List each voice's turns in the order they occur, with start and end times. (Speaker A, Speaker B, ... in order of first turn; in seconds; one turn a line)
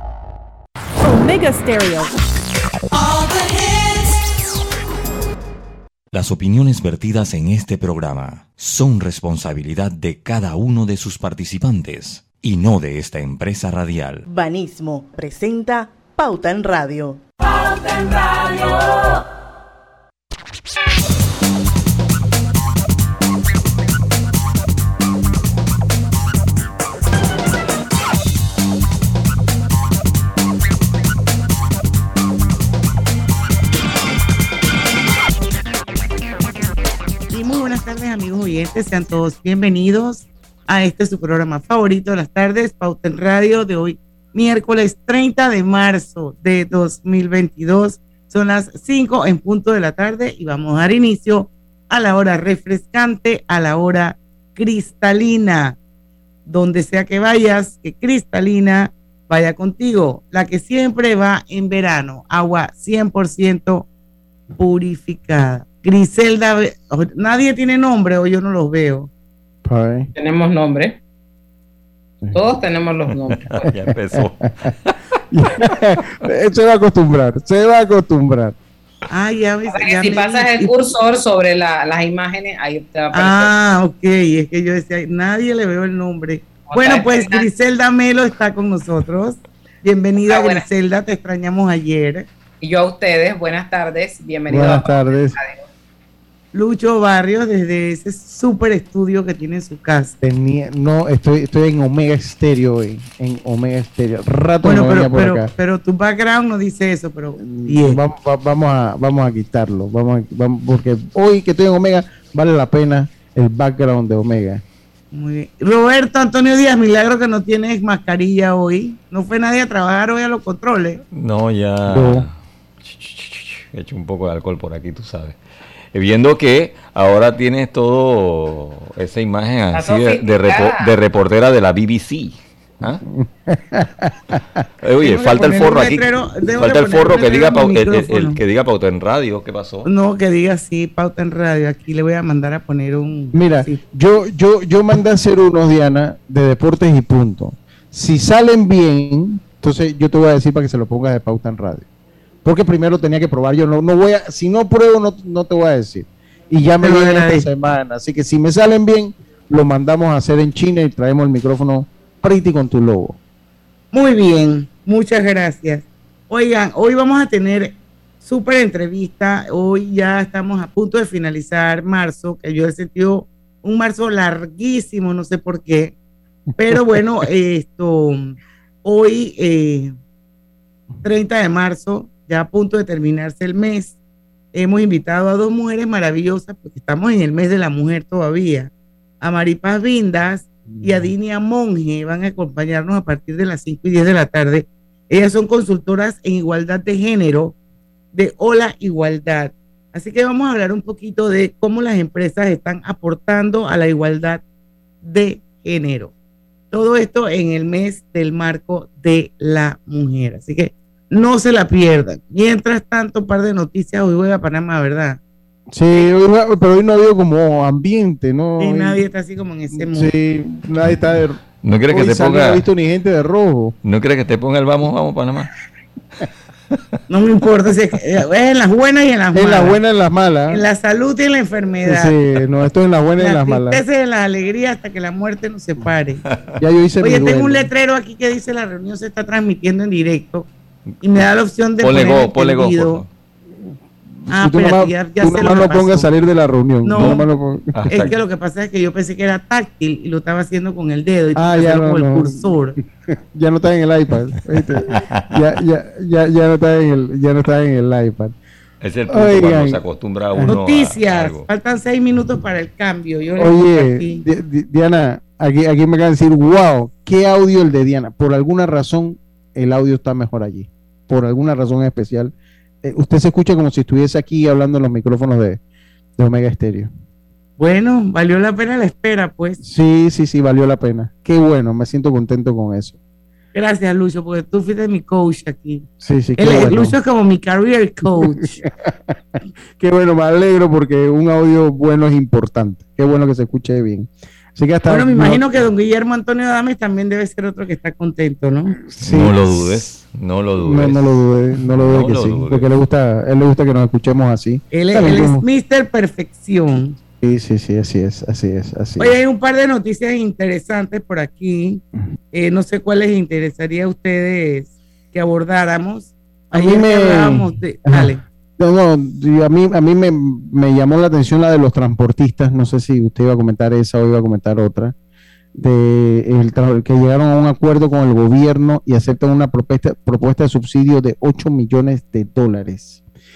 Speaker A: 6.1-14.2
Speaker B: 14.2-17.2
Speaker C: 37.3-55.8
Speaker C: 56.5-63.9
Speaker C: 64.5-69.1
Speaker D: 69.6-70.1
Speaker E: 70.2-71.0
Speaker E: 72.3-73.8
Speaker D: 73.9-74.7
Speaker A: 73.9-74.3
Speaker D: 75.3-78.5
Speaker C: 79.1-80.7
Speaker E: 79.7-83.5
Speaker C: 83.1-92.3
Speaker E: 86.7-87.5
Speaker E: 90.2-90.6
Speaker E: 92.6-95.6
Speaker D: 94.5-95.4
Speaker C: 96.5-100.2
Speaker D: 100.2-105.5
Speaker C: 104.6-108.0
Speaker D: 107.4-114.6
Speaker C: 115.1-121.0
Speaker F: 121.2-122.0
Speaker D: 121.9-122.3
Speaker F: 122.8-125.4
Speaker F: 125.9-133.0
Speaker E: 129.7-130.9
Speaker D: 133.2-134.4
Speaker F: 134.8-136.0
Speaker C: 135.0-138.4
Speaker F: 136.6-139.9
Speaker C: 139.8-143.8
Speaker D: 143.3-151.8
Speaker D: 152.4-163.2
Speaker C: 156.8-157.4
Speaker C: 163.9-175.9
Speaker C: 176.6-179.9
Speaker C: 181.0-183.9
Speaker C: 184.5-188.7
Speaker C: 189.2-197.5
Speaker C: 198.1-204.4
Speaker C: 205.0-206.1
Speaker C: 206.7-215.2
Speaker D: 215.7-219.0
Speaker C: 218.6-220.1
Speaker D: 219.8-223.8
Speaker F: 223.8-225.3
Speaker C: 227.1-229.8
Speaker D: 229.3-230.6
Speaker C: 230.5-232.2
Speaker D: 231.8-233.8
Speaker C: 233.2-236.2
Speaker D: 236.6-237.7
Speaker C: 237.0-240.5
Speaker C: 241.0-243.0
Speaker F: 241.8-243.1
Speaker C: 244.3-246.1
Speaker D: 244.4-248.1
Speaker C: 246.8-247.2
Speaker C: 247.9-252.8
Speaker D: 251.3-252.5
Speaker D: 253.1-258.3
Speaker F: 258.8-261.4
Speaker D: 259.1-260.6
Speaker C: 260.4-264.2
Speaker D: 263.4-272.3
Speaker D: 272.8-275.6
Speaker D: 276.2-276.9
Speaker C: 277.6-279.6
Speaker D: 279.6-283.0
Speaker C: 283.5-285.9
Speaker D: 286.0-286.9
Speaker C: 286.4-288.6
Speaker D: 289.8-295.5
Speaker C: 294.9-298.8
Speaker D: 298.8-299.9
Speaker F: 300.4-300.8
Speaker D: 300.6-305.4
Speaker C: 304.7-307.0
Speaker D: 307.2-309.1
Speaker C: 309.0-318.2
Speaker D: 316.5-324.9
Speaker D: 325.5-333.0